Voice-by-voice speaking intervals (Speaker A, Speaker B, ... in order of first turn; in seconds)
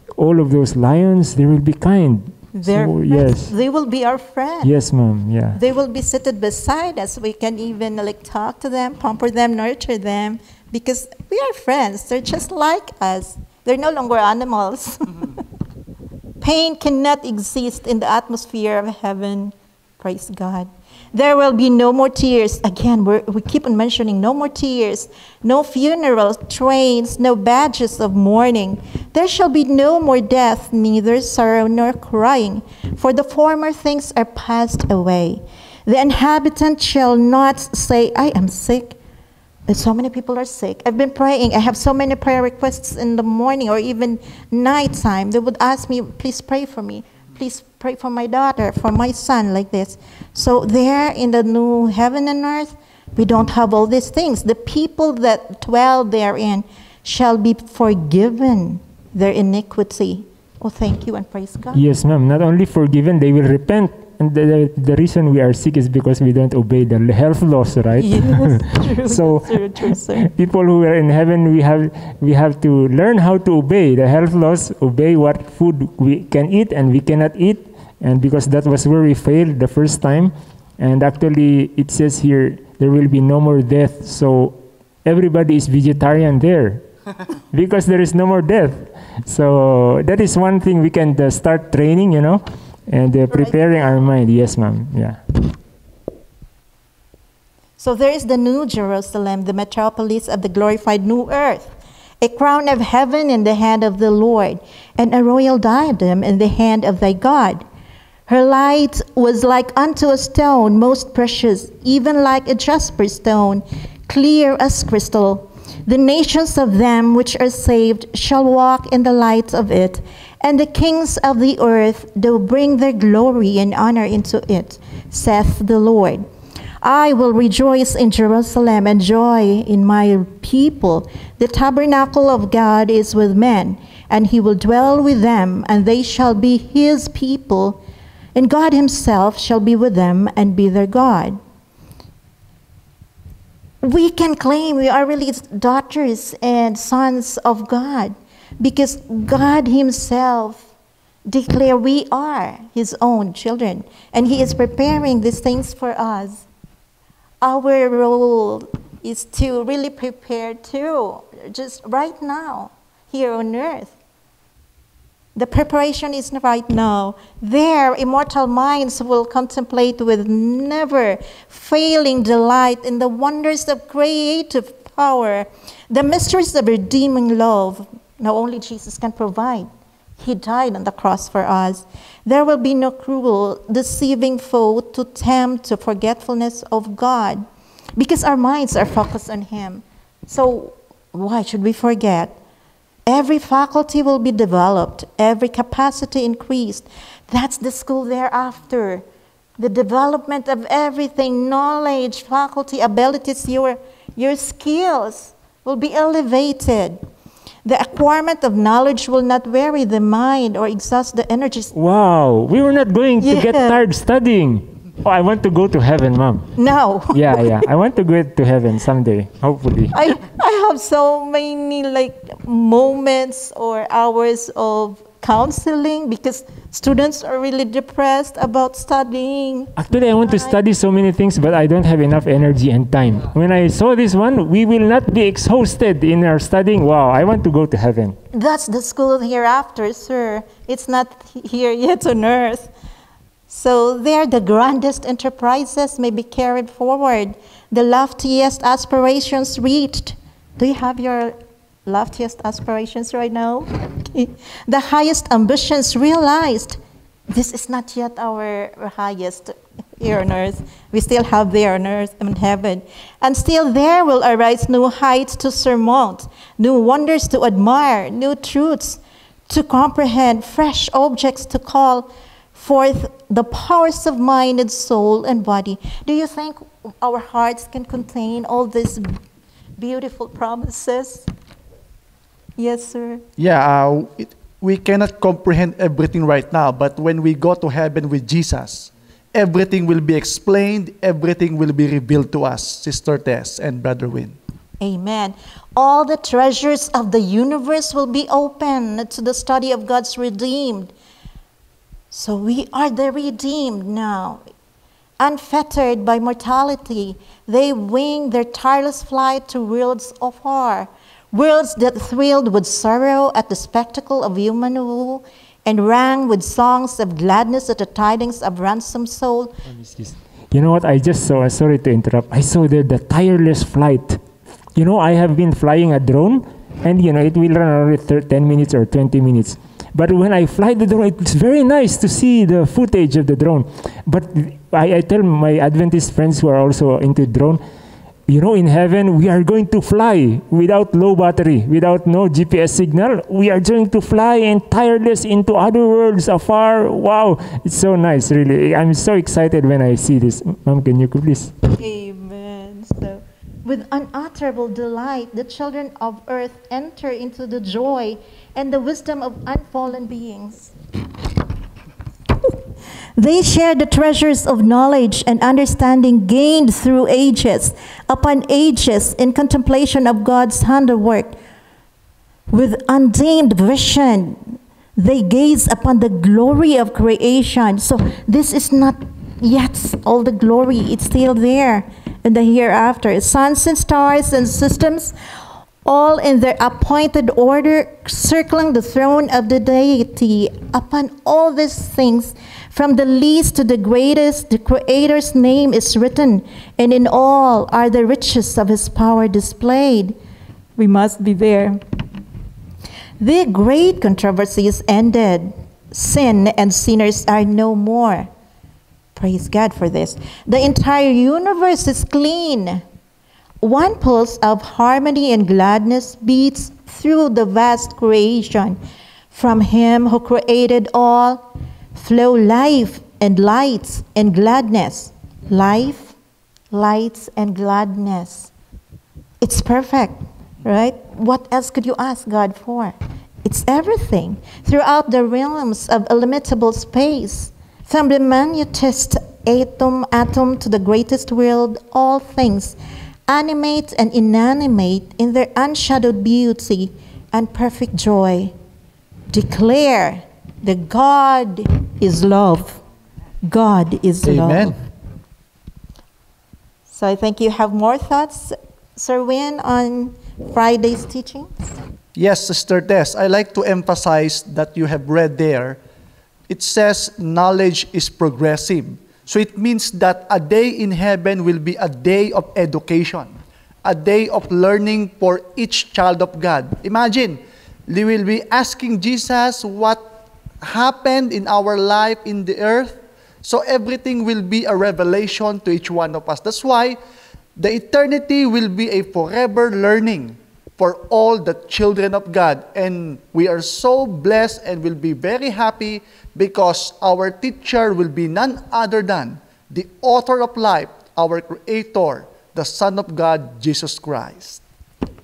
Speaker A: 0.2-3.5, 4.6-5.6, 61.7-86.8, 87.5-95.2, 211.7-216.5, 217.1-219.9, 229.8-238.2, 319.7-324.2, 324.8-337.6, 338.3-351.6
Speaker B: 2.5-4.7, 5.5-15.4, 16.4-39.0, 39.7-61.8, 68.0-70.3, 97.8-107.7, 108.3-126.2, 126.8-137.8, 138.3-141.4, 143.8-150.7, 151.3-156.5, 157.4-163.9, 165.3-187.4, 188.0-192.4, 193.1-199.0, 199.6-207.0, 207.7-211.7, 213.2-213.8, 216.6-217.7, 219.9-230.6, 238.3-242.7, 243.5-251.3, 251.9-256.8, 257.3-279.2, 279.8-281.3, 282.6-283.2, 294.8-300.9, 302.1-304.4, 305.2-319.6, 351.7-360.7, 363.2-371.4, 372.5-385.1, 385.9-400.1, 400.8-401.8, 403.2-408.3, 409.1-412.8, 413.6-418.8, 419.3-426.1, 426.7-428.5, 429.4-442.8, 443.3-448.5, 449.3-452.8, 453.4-454.8, 456.9-461.5
Speaker C: 283.4-294.4, 454.2-454.8, 462.2-465.8, 466.5-480.1, 480.6-487.0, 487.6-504.6